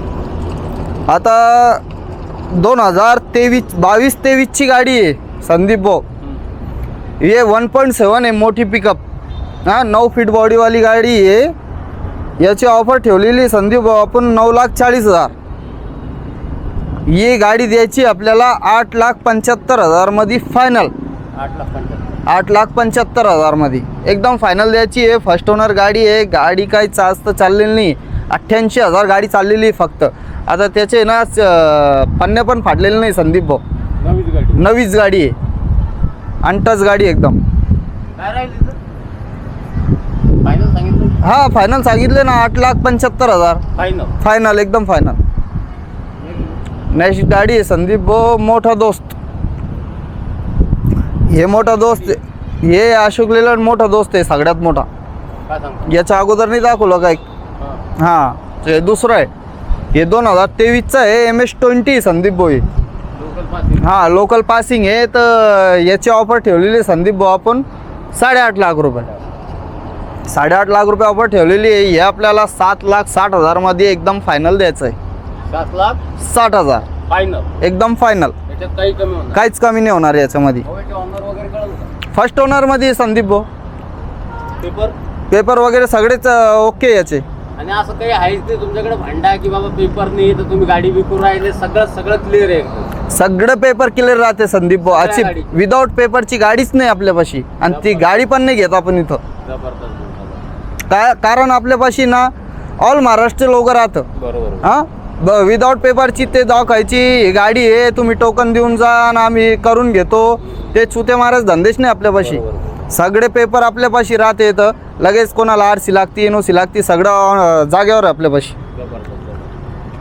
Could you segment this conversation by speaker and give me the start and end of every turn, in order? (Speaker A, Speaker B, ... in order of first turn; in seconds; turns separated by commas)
Speaker A: 1.1-1.8, Speaker A: 2.5-6.0, Speaker A: 7.2-9.0, Speaker A: 9.7-11.5, Speaker A: 12.4-15.3, Speaker A: 17.1-20.9, Speaker B: 21.3-22.2, Speaker A: 22.3-33.6, Speaker B: 34.0-34.6, Speaker A: 34.6-35.3, Speaker A: 36.4-37.4, Speaker B: 38.2-38.8, Speaker B: 40.4-41.2, Speaker A: 41.2-43.6, Speaker B: 43.8-44.1, Speaker A: 44.2-45.2, Speaker B: 46.2-46.5, Speaker A: 46.9-49.1, Speaker A: 51.3-54.9, Speaker B: 51.5-52.2, Speaker B: 55.5-56.0, Speaker A: 55.9-57.2, Speaker A: 58.0-59.3, Speaker A: 59.9-62.7, Speaker B: 63.1-63.9, Speaker A: 63.8-69.1, Speaker A: 70.3-75.0, Speaker B: 75.5-76.0, Speaker A: 76.2-76.9, Speaker B: 77.1-77.5, Speaker A: 77.6-78.3, Speaker B: 78.5-79.4, Speaker A: 79.3-80.7, Speaker B: 80.6-81.9, Speaker A: 82.1-83.5, Speaker B: 84.6-85.0, Speaker A: 85.3-87.2, Speaker B: 87.6-92.9, Speaker A: 93.1-99.2, Speaker B: 94.8-95.6, Speaker B: 97.7-98.2, Speaker B: 99.4-100.4, Speaker A: 100.9-104.1, Speaker B: 104.2-104.7, Speaker A: 104.6-118.6, Speaker B: 112.2-112.7, Speaker B: 118.8-119.5